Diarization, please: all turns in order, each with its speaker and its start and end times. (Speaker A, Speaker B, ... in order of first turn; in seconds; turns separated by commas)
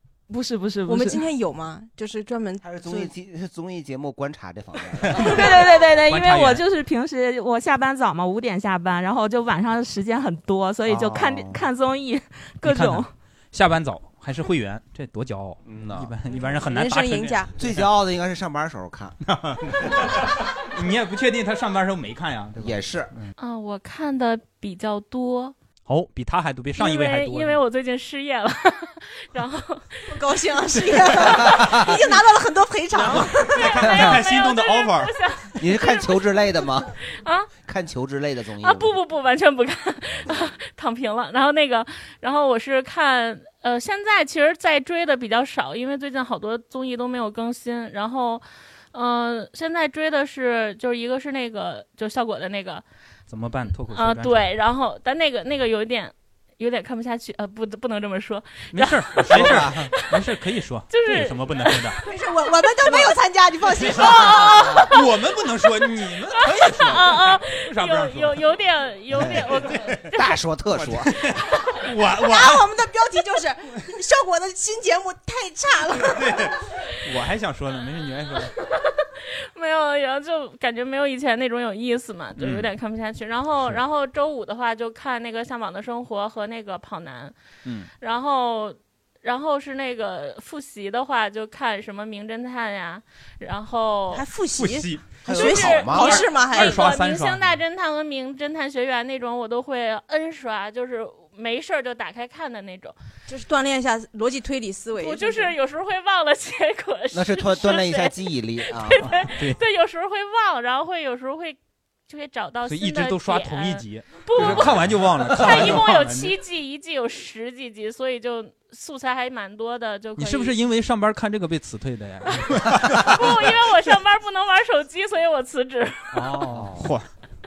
Speaker A: 0.3-1.2, Speaker B: 0.9-3.1, Speaker C: 2.6-5.3, Speaker D: 5.2-5.5, Speaker A: 5.2-13.1, Speaker D: 6.1-6.6, Speaker C: 10.9-11.6, Speaker D: 12.6-17.9, Speaker C: 15.7-16.1, Speaker B: 16.7-17.5, Speaker C: 17.6-19.2, Speaker D: 19.2-23.3, Speaker C: 22.6-23.1, Speaker E: 23.4-25.6, Speaker D: 25.9-27.6, Speaker E: 26.8-30.2, Speaker B: 30.1-33.6, Speaker D: 30.8-31.5, Speaker C: 31.2-31.9, Speaker C: 33.0-34.2, Speaker D: 33.0-35.1, Speaker E: 33.4-36.3, Speaker C: 35.6-36.9, Speaker E: 37.0-37.5, Speaker C: 37.6-39.0, Speaker E: 38.6-52.9, Speaker D: 53.3-54.5, Speaker E: 53.9-60.3, Speaker D: 58.7-62.0, Speaker C: 59.3-59.9, Speaker E: 60.9-62.0, Speaker B: 62.0-64.8, Speaker D: 63.8-68.4, Speaker E: 63.9-65.1, Speaker E: 66.0-70.4, Speaker C: 69.1-71.1, Speaker D: 69.2-70.1, Speaker D: 70.7-72.7, Speaker B: 72.2-76.3, Speaker D: 75.9-78.5, Speaker E: 78.6-87.3, Speaker D: 82.4-82.7, Speaker E: 88.0-94.3, Speaker B: 94.1-96.8, Speaker D: 94.5-97.5, Speaker C: 95.2-96.3, Speaker E: 95.3-103.0, Speaker B: 103.3-105.5, Speaker E: 104.9-120.6, Speaker C: 107.1-109.0, Speaker D: 109.1-109.6, Speaker D: 112.7-116.3, Speaker D: 120.2-123.6, Speaker E: 122.4-126.4, Speaker D: 126.1-127.1, Speaker C: 126.5-126.9